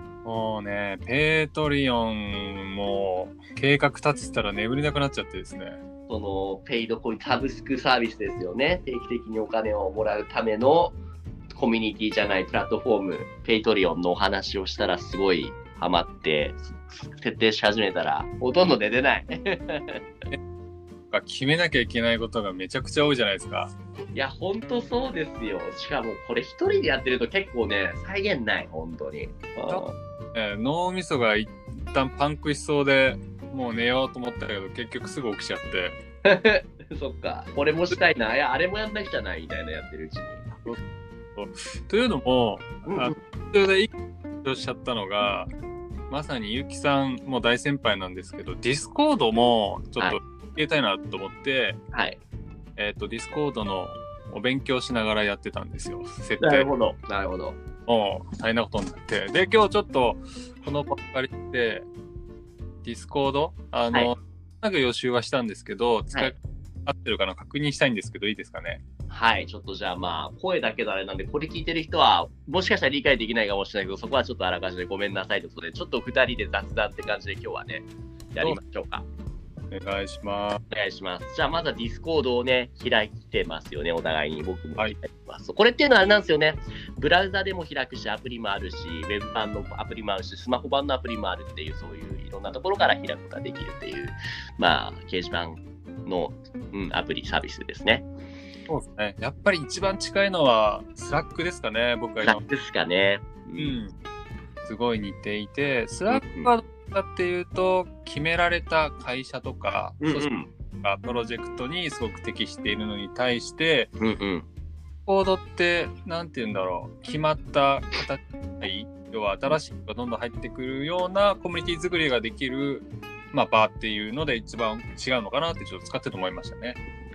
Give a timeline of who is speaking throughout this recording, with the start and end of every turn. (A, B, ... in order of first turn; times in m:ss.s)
0:00.2-0:05.8 A
0:06.1-0:11.0 B
0:11.5-0:20.0 B
0:21.1-0:23.7 A
0:24.1-0:29.9 B
0:29.7-0:36.0 A
0:36.2-0:40.5 B
0:41.4-0:43.9 A
0:42.9-0:43.1 B
0:44.4-0:45.5 A
0:46.1-0:51.8 A
0:51.9-0:52.2 B
0:52.8-0:56.7 A
0:56.4-0:57.6 B
0:57.9-1:01.9 A
1:02.8-1:08.8 A
1:09.1-1:19.0 B
1:19.7-1:20.6 A
1:20.7-1:38.0 B
1:38.7-1:42.4 A
1:42.2-1:43.8 B
1:43.6-1:43.9 A
1:44.6-1:50.3 A
1:46.1-1:46.5 B
1:50.0-1:50.5 B
1:50.8-1:53.9 A
1:54.0-1:54.4 B
1:55.0-2:06.8 A